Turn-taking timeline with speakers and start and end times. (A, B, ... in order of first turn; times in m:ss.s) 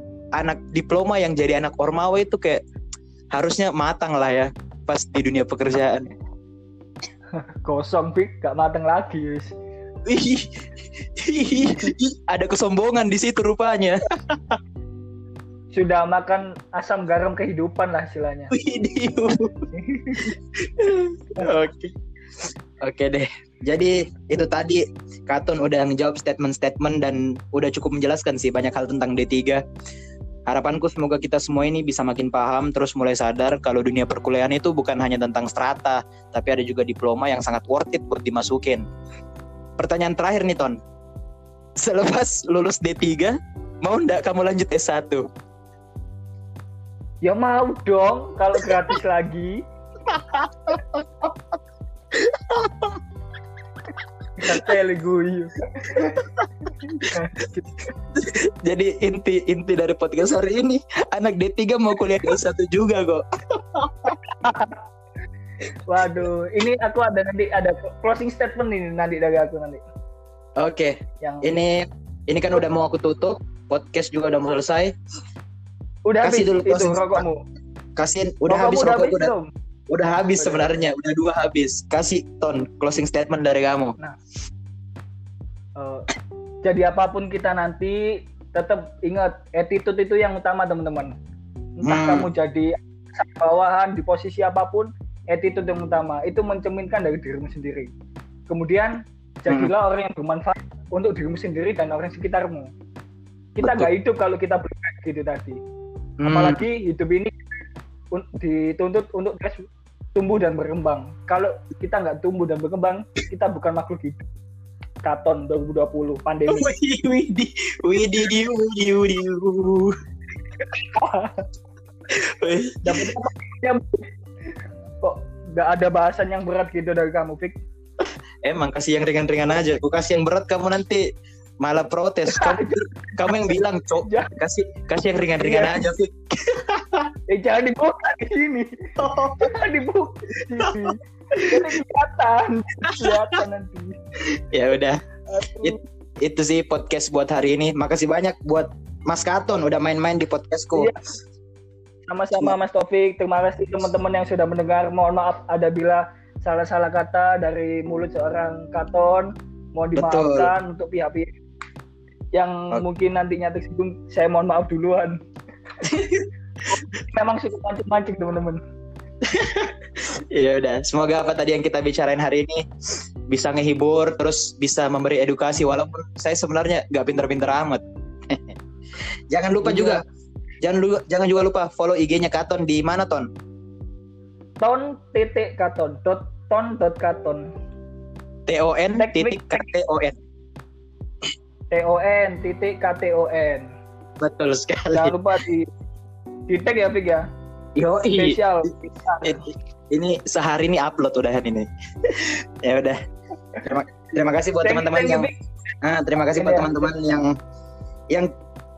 0:00.4-0:02.6 A
0:03.3-0:06.1 A
0:07.4-0:09.5 B
0:10.0-0:14.6 A
0:15.7-0:18.5 B
0:18.5-0:21.9 A
0:19.7-0:20.4 B
0:22.8-0:29.6 A
0:30.5-0:38.8 A
0:39.8-0:40.8 A
0:41.8-0:45.3 A
0:47.2-0:49.6 B
0:50.1-0:51.4 A
0:52.1-0:53.0 A
0:54.4-0:56.2 B
0:54.4-0:54.7 A
0:56.0-0:57.2 A
0:56.8-0:57.7 B
0:58.1-1:04.2 A
1:04.2-1:04.8 B
1:05.8-1:09.8 B
1:10.6-1:14.9 A
1:11.2-1:11.5 B
1:16.0-1:17.4 B
1:16.2-1:17.2 A
1:18.0-1:19.3 A
1:18.5-1:19.5 B
1:19.9-1:24.0 A
1:20.4-1:20.7 B
1:25.8-1:26.0 B
1:26.6-1:31.1 B
1:31.8-1:37.9 B
1:31.8-1:32.3 A
1:38.5-1:42.7 B
1:43.6-1:45.6 B
1:43.6-1:43.9 A
1:46.2-1:46.6 A
1:46.2-1:47.3 B
1:48.1-1:54.2 B
1:55.0-1:56.7 B
1:56.5-1:59.9 A
2:00.7-2:01.4 B
2:02.1-2:03.1 A
2:02.8-2:04.1 B
2:05.0-2:07.6 B
2:08.4-2:11.0 A
2:11.6-2:17.1 A
2:12.3-2:13.5 B
2:14.0-2:14.3 B
2:15.4-2:15.8 B
2:17.3-2:24.0 B
2:19.0-2:19.5 A
2:20.6-2:21.8 A
2:22.9-2:23.4 A
2:24.3-2:25.0 A
2:25.3-2:25.8 B
2:25.6-2:30.9 A
2:32.1-2:41.4 B
2:40.0-2:40.5 A
2:42.3-2:45.2 B
2:45.8-2:46.3 A
2:46.7-2:48.6 B
2:49.2-2:52.6 A
2:53.3-2:58.6 A
2:59.3-3:00.0 A
2:59.5-3:00.0 B
3:00.6-3:03.3 A
3:04.6-3:07.5 B
3:08.5-3:10.2 A
3:09.0-3:09.7 B
3:11.7-3:13.7 B
3:14.2-3:15.2 A
3:14.9-3:15.7 B
3:16.5-3:17.2 B
3:17.8-3:18.7 A
3:18.1-3:19.4 B
3:19.2-3:23.0 A
3:23.6-3:25.3 A
3:24.6-3:25.3 B
3:25.8-3:27.3 A
3:26.3-3:26.8 B